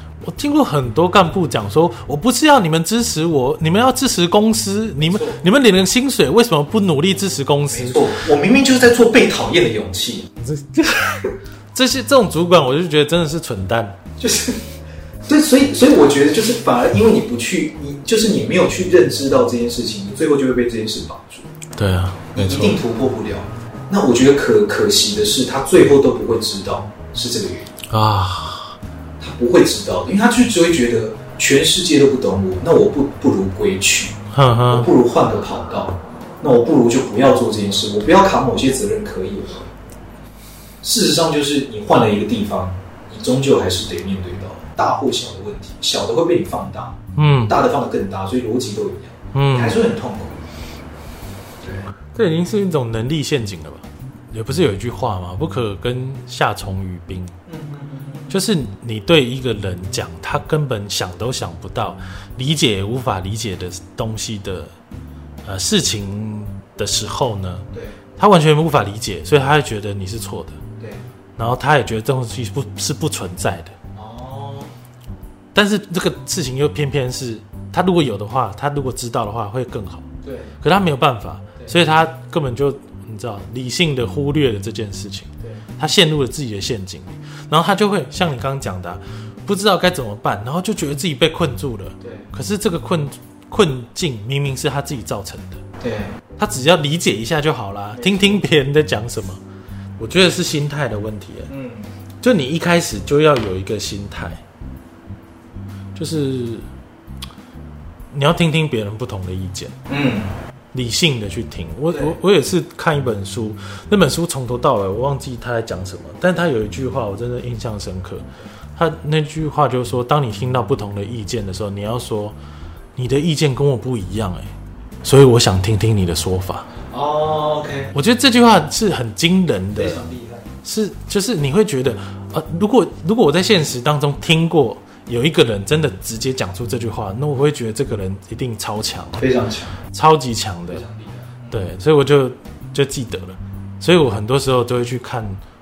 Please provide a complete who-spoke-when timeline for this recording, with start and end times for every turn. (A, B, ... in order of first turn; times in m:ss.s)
0:00.2-0:08.1 A
0:05.0-0:05.4 B
0:07.7-0:10.3 B
0:10.4-0:14.0 A
0:14.2-0:14.6 B
0:15.3-0:21.5 B
0:21.8-0:22.8 A
0:22.3-0:27.7 B
0:27.9-0:28.8 A
0:29.2-0:34.2 B
0:34.3-0:34.9 A
0:34.7-0:39.7 B
0:40.8-0:50.4 B
0:47.2-0:47.6 A
0:49.3-0:49.8 A
0:51.6-0:51.9 B
0:52.1-0:57.4 A
0:57.5-0:58.4 B
0:58.3-1:04.7 A
1:05.4-1:07.7 A
1:08.2-1:10.6 A
1:10.8-1:11.0 B
1:11.4-1:13.7 A
1:14.0-1:14.7 B
1:15.5-1:20.1 A
1:20.2-1:20.6 B
1:20.6-1:35.6 A
1:21.6-1:22.0 B
1:32.0-1:32.3 B
1:35.8-1:36.2 B
1:36.4-1:39.4 A
1:37.9-1:38.5 B
1:40.0-1:41.5 A
1:41.5-1:42.0 B
1:42.2-1:44.4 A
1:46.0-1:46.7 A
1:48.1-1:49.8 A
1:49.9-1:50.4 B
1:50.7-2:02.4 A
1:51.9-1:52.2 B
2:03.0-2:04.5 A
2:05.0-2:06.7 A
2:06.9-2:07.9 B
2:07.9-2:10.1 A
2:09.8-2:10.5 B
2:10.6-2:19.2 A
2:19.2-2:19.8 B
2:19.9-2:20.8 A
2:20.7-2:21.7 B
2:21.5-2:25.4 A